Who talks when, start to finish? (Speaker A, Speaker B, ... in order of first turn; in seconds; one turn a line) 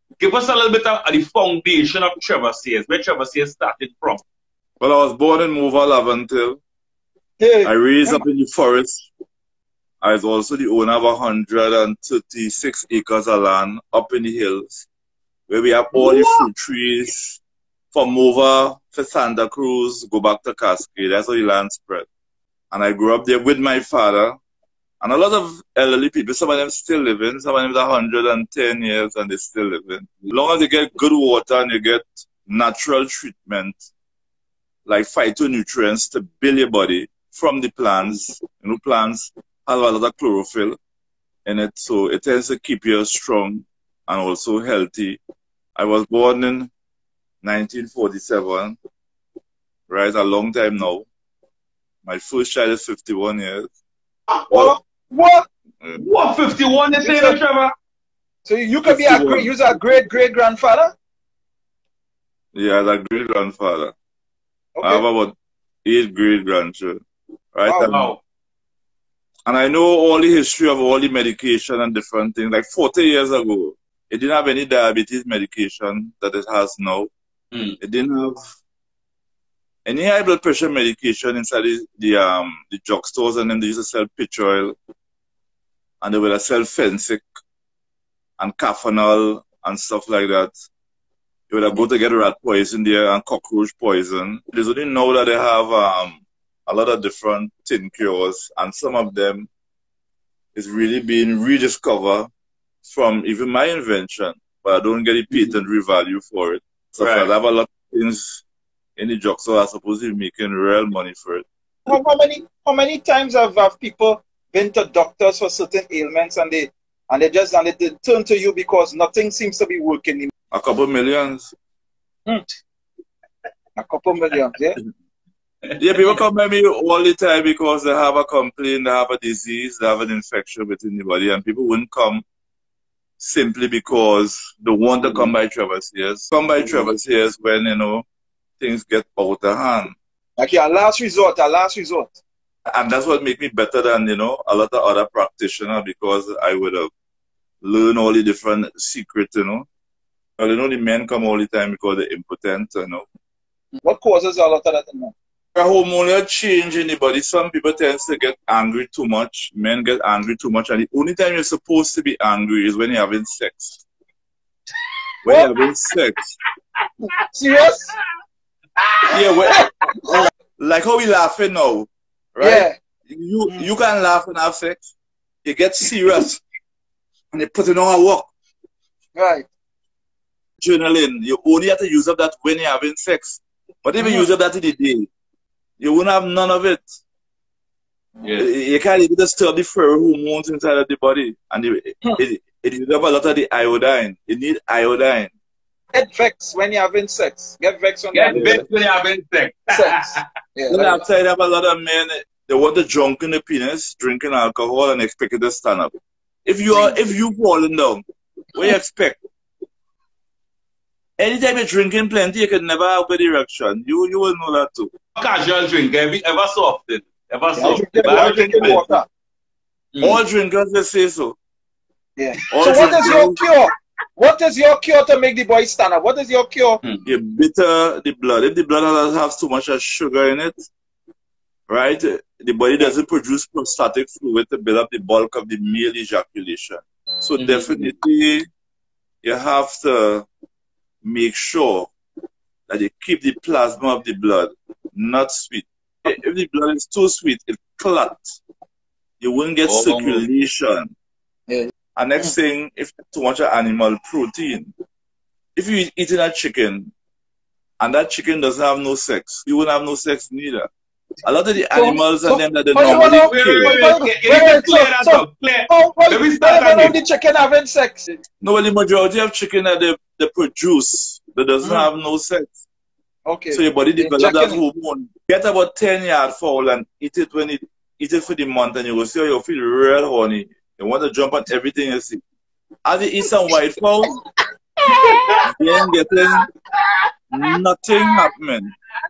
Speaker A: 0.2-4.2
Speaker B: 4.8-6.6
Speaker C: 7.4-8.2
Speaker B: 7.6-9.1
Speaker B: 10.0-14.9
Speaker B: 15.5-17.4
Speaker B: 17.9-22.1
Speaker B: 22.7-24.4
Speaker B: 25.0-33.8
Speaker B: 34.9-40.8
Speaker B: 41.4-45.2
Speaker B: 45.8-46.7
Speaker B: 47.4-48.8
Speaker B: 49.9-51.1
Speaker B: 52.0-53.7
Speaker C: 54.5-55.5
Speaker A: 56.0-57.7
Speaker C: 57.0-57.4
Speaker C: 58.4-60.9
Speaker B: 58.8-59.5
Speaker B: 62.5-63.9
Speaker C: 64.8-65.0
Speaker B: 64.8-67.0
Speaker B: 67.5-68.1
Speaker C: 67.7-68.0
Speaker A: 67.8-68.2
Speaker B: 69.5-77.1
Speaker B: 77.8-78.5
Speaker B: 79.8-84.7
Speaker B: 86.0-87.2
Speaker B: 88.4-90.5
Speaker B: 91.5-99.5
Speaker B: 100.5-102.3
Speaker B: 102.8-108.4
Speaker A: 107.0-107.3
Speaker B: 109.0-111.4
Speaker C: 111.9-120.3
Speaker B: 120.5-121.5
Speaker C: 123.8-124.8
Speaker B: 125.8-132.2
Speaker B: 133.2-138.1
Speaker A: 135.0-135.3
Speaker B: 138.6-139.9
Speaker C: 140.4-142.2
Speaker B: 142.7-146.9
Speaker B: 147.6-149.7
Speaker B: 150.4-153.1
Speaker C: 153.8-155.1
Speaker B: 155.5-163.8
Speaker B: 165.2-166.3
Speaker C: 165.2-165.5
Speaker C: 167.3-167.9
Speaker B: 169.1-169.7
Speaker C: 169.6-170.3
Speaker B: 170.6-174.9
Speaker C: 172.4-172.7
Speaker B: 175.4-176.4
Speaker B: 177.3-178.3
Speaker C: 179.1-179.5
Speaker B: 180.6-185.1
Speaker B: 185.8-186.9
Speaker A: 188.2-188.5
Speaker B: 188.4-195.3
Speaker C: 195.9-198.7
Speaker A: 198.1-200.2
Speaker B: 198.3-198.6
Speaker C: 199.7-201.0
Speaker B: 200.7-205.9
Speaker B: 206.4-209.2
Speaker B: 211.2-214.9
Speaker A: 215.2-218.8
Speaker C: 217.5-219.1
Speaker B: 217.9-219.0
Speaker A: 219.9-220.2
Speaker B: 220.0-221.4
Speaker C: 222.2-226.8
Speaker B: 222.5-223.4
Speaker B: 227.0-230.7
Speaker B: 231.7-238.5
Speaker A: 237.3-237.9
Speaker B: 239.2-240.3
Speaker B: 241.0-241.9
Speaker B: 242.7-248.4
Speaker B: 249.2-250.9
Speaker A: 249.7-250.2
Speaker C: 251.5-252.3
Speaker B: 251.9-254.7
Speaker B: 255.6-256.9
Speaker B: 257.8-260.7
Speaker B: 261.2-263.8
Speaker C: 261.6-268.2
Speaker A: 262.9-267.0
Speaker B: 268.4-272.6
Speaker C: 271.6-271.9
Speaker C: 273.2-274.6
Speaker B: 273.5-282.2
Speaker B: 282.8-284.1
Speaker B: 285.4-286.5
Speaker B: 287.3-288.7